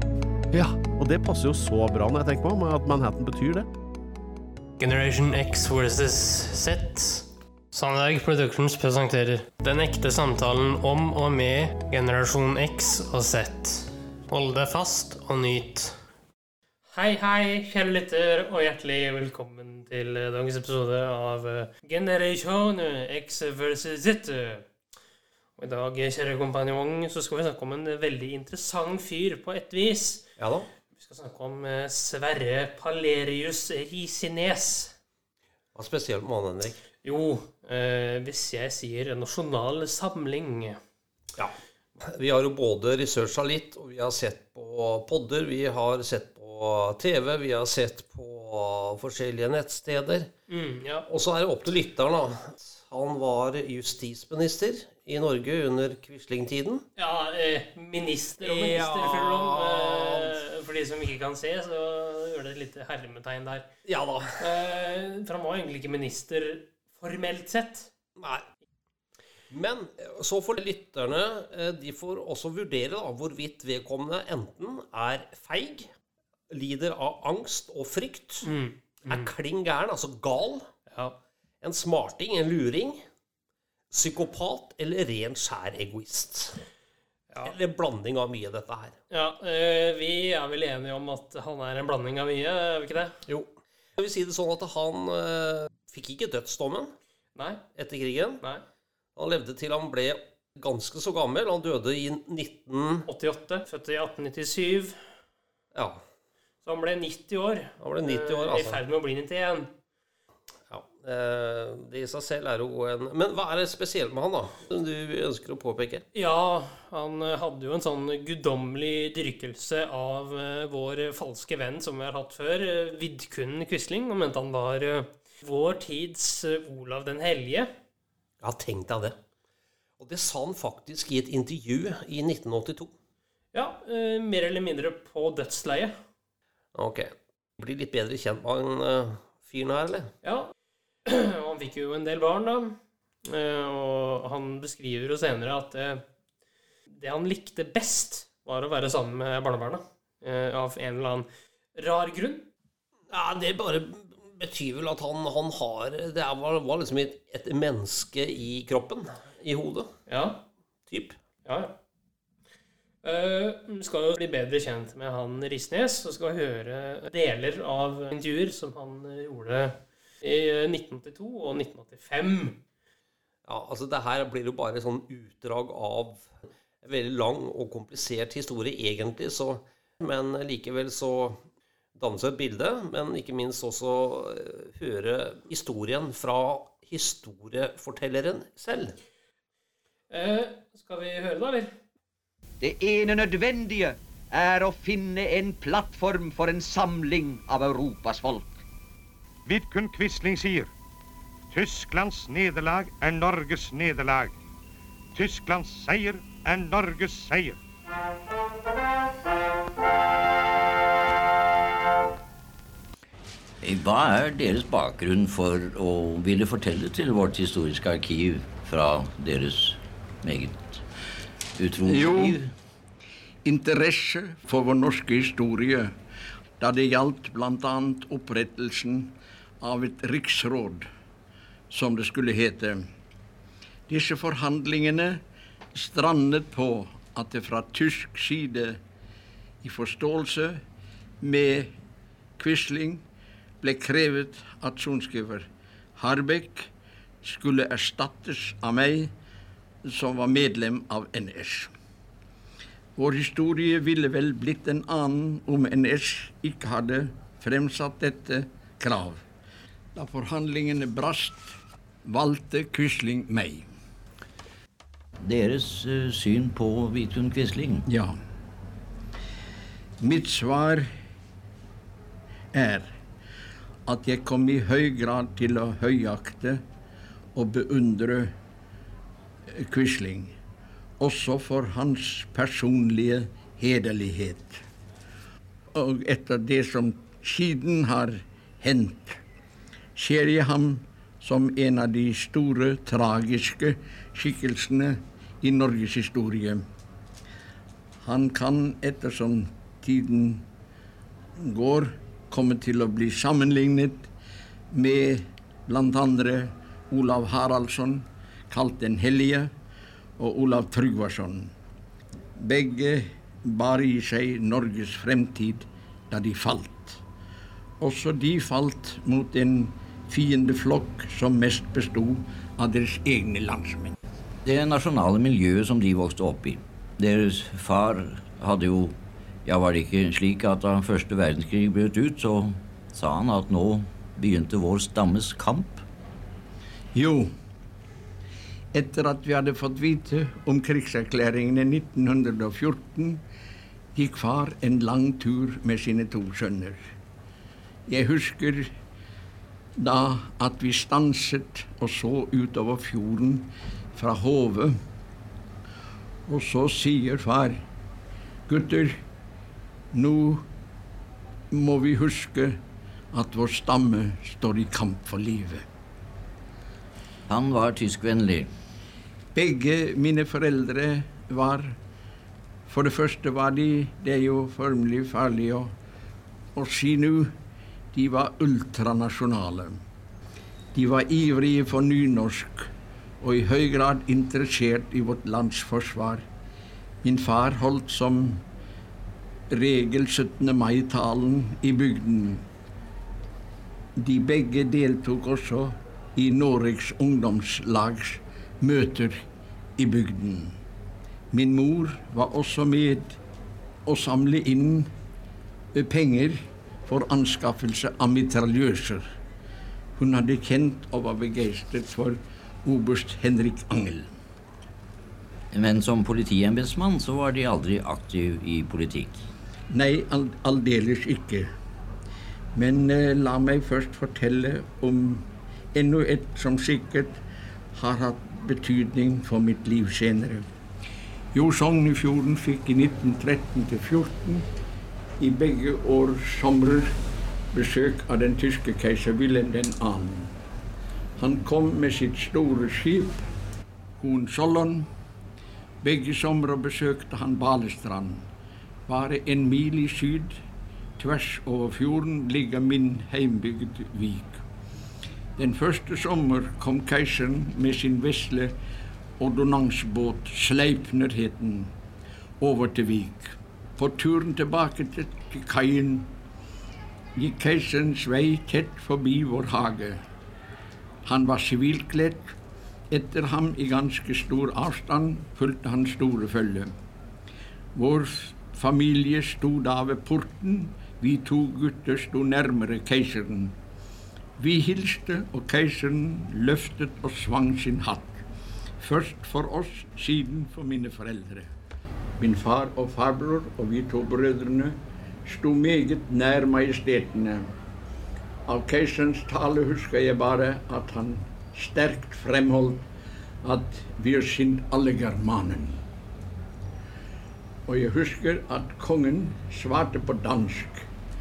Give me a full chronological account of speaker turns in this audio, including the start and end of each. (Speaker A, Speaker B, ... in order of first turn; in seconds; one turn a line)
Speaker A: 0.5-3.7
Speaker B: 4.8-7.2
Speaker B: 7.7-15.8
Speaker B: 16.9-24.7
Speaker B: 25.6-30.3
Speaker C: 30.4-30.7
Speaker B: 30.9-34.9
Speaker C: 35.7-36.8
Speaker B: 37.0-40.8
Speaker C: 41.4-50.3
Speaker B: 50.5-51.0
Speaker C: 51.1-56.8
Speaker B: 57.0-63.7
Speaker C: 58.4-60.4
Speaker C: 63.8-64.4
Speaker B: 64.4-67.9
Speaker C: 68.2-68.4
Speaker C: 69.5-75.9
Speaker C: 76.5-78.5
Speaker B: 78.4-79.3
Speaker C: 79.1-80.7
Speaker B: 80.9-81.2
Speaker C: 81.6-83.0
Speaker C: 83.9-86.6
Speaker C: 87.4-89.0
Speaker B: 89.1-93.2
Speaker C: 93.3-96.9
Speaker B: 97.3-97.6
Speaker C: 97.7-98.4
Speaker C: 99.2-103.1
Speaker B: 103.0-105.0
Speaker C: 105.7-106.0
Speaker B: 106.6-109.7
Speaker C: 107.8-108.8
Speaker C: 110.7-116.0
Speaker B: 116.1-127.7
Speaker C: 128.4-129.2
Speaker C: 130.0-132.9
Speaker B: 133.5-135.9
Speaker C: 136.7-140.1
Speaker B: 140.2-140.5
Speaker B: 141.1-146.0
Speaker B: 147.0-152.5
Speaker C: 153.1-159.9
Speaker B: 160.1-160.4
Speaker C: 160.9-161.2
Speaker B: 161.4-161.8
Speaker B: 163.0-172.6
Speaker C: 173.4-181.4
Speaker C: 181.9-188.9
Speaker B: 190.1-191.7
Speaker D: 192.6-198.6
Speaker E: 199.5-200.7
Speaker E: 201.5-204.3
Speaker E: 205.1-207.6
Speaker F: 213.6-220.8
Speaker F: 221.6-222.5
Speaker G: 221.8-222.4
Speaker G: 223.4-225.9
Speaker G: 226.6-230.9
Speaker G: 231.7-232.8
Speaker G: 233.9-235.2
Speaker G: 235.7-238.8
Speaker G: 239.6-240.6
Speaker G: 241.2-241.7
Speaker G: 242.4-243.0
Speaker G: 243.6-246.7
Speaker G: 247.2-249.1
Speaker G: 249.8-251.7
Speaker G: 252.9-259.2
Speaker G: 259.9-263.7
Speaker F: 265.2-267.9
Speaker G: 267.9-268.2
Speaker G: 270.0-270.9
Speaker G: 272.5-272.9
Speaker G: 273.9-276.6
Speaker G: 277.3-278.3
Speaker G: 279.5-280.3
Speaker G: 281.0-284.6
Speaker G: 285.7-289.2
Speaker G: 289.9-296.6
Speaker G: 298.0-300.4
Speaker G: 301.4-304.1
Speaker G: 304.7-309.5
Speaker G: 310.2-311.5
Speaker G: 312.4-317.0
Speaker G: 317.8-323.9
Speaker F: 324.4-335.8
Speaker G: 336.9-337.3
Speaker G: 338.7-343.2
Speaker G: 343.9-346.8
Speaker G: 347.9-348.7
Speaker G: 349.8-354.8
Speaker G: 356.3-357.6
Speaker G: 358.5-359.0
Speaker G: 359.9-360.5
Speaker G: 361.5-362.6
Speaker G: 363.1-365.7
Speaker F: 367.3-368.5
Speaker G: 369.3-371.8
Speaker G: 372.7-375.7
Speaker G: 376.5-377.3
Speaker G: 377.9-379.8
Speaker G: 380.7-386.2
Speaker G: 387.0-388.4
Speaker G: 389.5-392.4
Speaker G: 394.0-399.2
Speaker G: 399.8-400.6
Speaker G: 401.3-403.2
Speaker G: 403.9-404.9
Speaker G: 405.7-409.0
Speaker G: 409.9-414.1
Speaker F: 415.5-419.2
Speaker G: 419.7-421.5
Speaker G: 422.5-427.2
Speaker G: 427.7-430.5
Speaker G: 431.3-434.5
Speaker G: 435.2-436.9
Speaker G: 437.5-440.3
Speaker G: 441.2-443.2
Speaker G: 444.0-444.9
Speaker G: 445.8-448.3
Speaker G: 448.9-450.4
Speaker G: 451.0-454.4
Speaker G: 455.4-458.6
Speaker G: 459.2-461.7
Speaker G: 462.4-466.1
Speaker G: 467.1-470.0
Speaker G: 471.0-472.4
Speaker G: 472.9-476.7
Speaker G: 477.7-483.6
Speaker G: 484.4-488.2
Speaker G: 488.8-491.5
Speaker G: 492.2-497.4
Speaker G: 498.4-502.9
Speaker G: 503.4-505.8
Speaker G: 507.7-510.9